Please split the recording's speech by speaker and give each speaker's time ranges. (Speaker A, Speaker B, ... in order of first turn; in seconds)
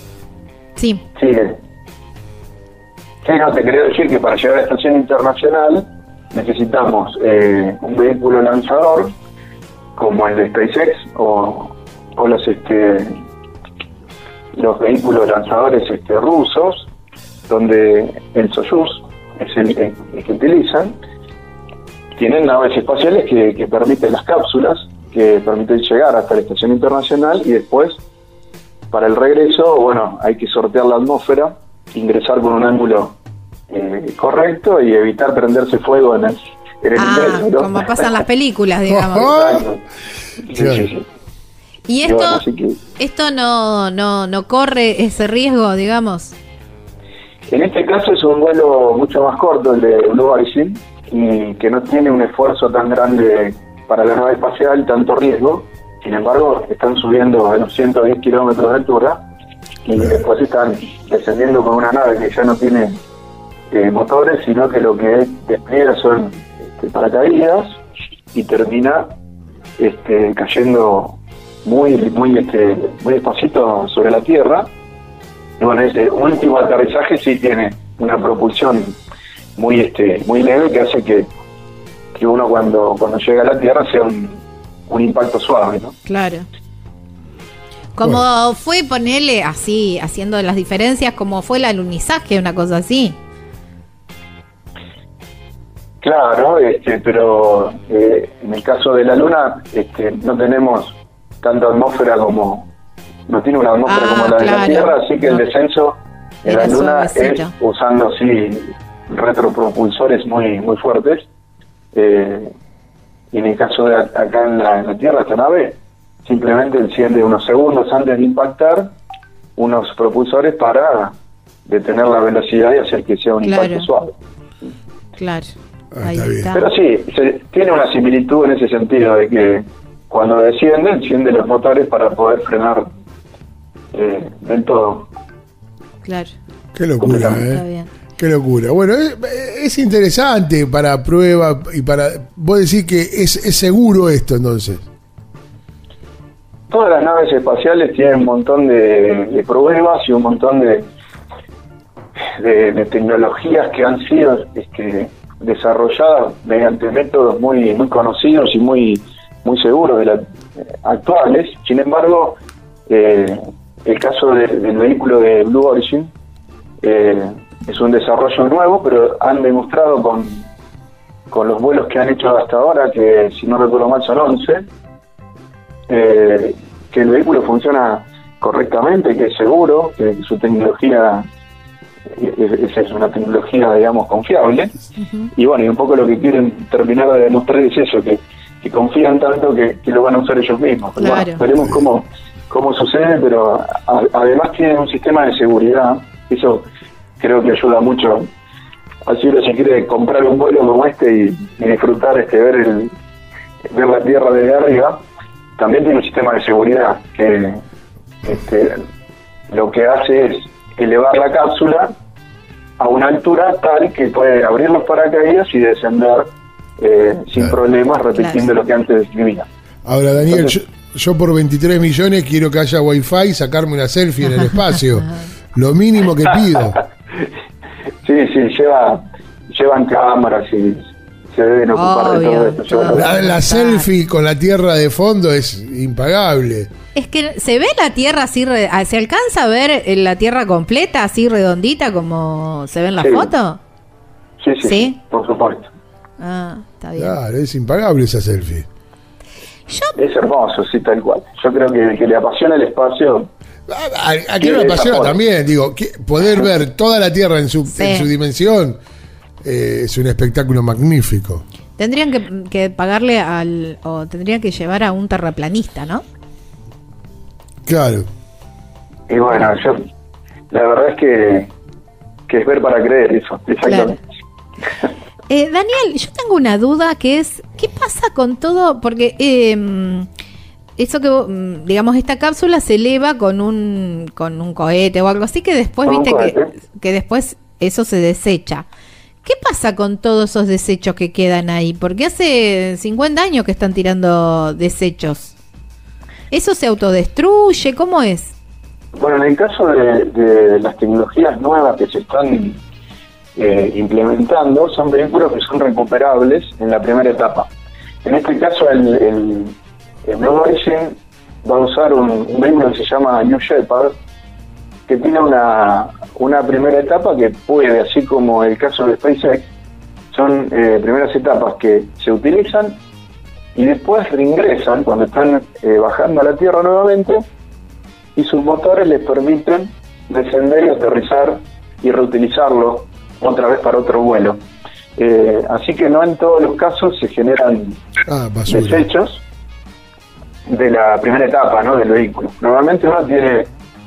Speaker A: 0.8-1.0, 37.0-39.3, 41.9-42.4, 43.0-46.4, 86.0-86.4, 87.9-93.2, 103.8-105.4, 106.5-107.5, 123.4-123.9, 125.2-126.7, 136.0-136.3, 137.5-137.9, 185.0-185.3, 191.0-191.4, 218.2-218.5, 231.7-233.9, 236.9-243.6, 244.6-244.9, 246.2-247.2, 249.7-249.9, 257.7-258.1, 261.8-266.0, 273.6-273.9, 275.3-280.1, 280.8-288.6, 289.2-295.4, 296.3-298.3
Speaker B: 1.1-1.6, 3.2-9.1, 10.0-13.1, 14.5-16.9, 17.5-21.0, 22.1-28.0, 28.9-33.2, 33.7-38.2, 39.2-39.8, 40.4-41.1, 42.0-42.8, 47.5-59.2, 59.8-62.9, 63.7-67.8, 68.3-69.1, 69.8-74.7, 75.6-79.0, 79.5-81.3, 82.1-86.0, 96.0-102.7, 103.3-111.2, 111.9-112.5, 113.3-118.9, 119.6-124.1, 126.5-132.9, 133.9-135.1, 137.0-137.5, 146.7-150.9, 152.4-166.1, 166.8-170.5, 171.3-174.6, 175.9-181.2, 182.1-184.7, 185.3-196.7, 197.2-198.3, 199.1-202.9, 203.7-205.0, 205.6-207.6, 208.2-208.8, 209.5-211.9, 212.8-219.5, 220.2-220.5, 228.0-233.3, 243.0-243.3, 244.4-245.7, 249.9-253.3, 254.4-255.2, 269.1-269.8, 270.5-271.5, 272.3-274.0, 285.9-286.5, 298.9-302.6, 303.4-307.5, 308.0-313.9, 314.9-319.5, 320.1-322.8, 323.5-327.2, 328.1-334.4, 335.0-337.8, 338.5-339.2, 340.5-343.5
Speaker C: 38.9-39.7, 40.5-40.9, 125.9-126.5, 136.7-137.6, 138.2-144.8, 219.8-226.8, 232.9-236.7, 247.0-248.7, 253.7-258.8, 259.4-261.4, 267.6-268.1, 338.1-338.8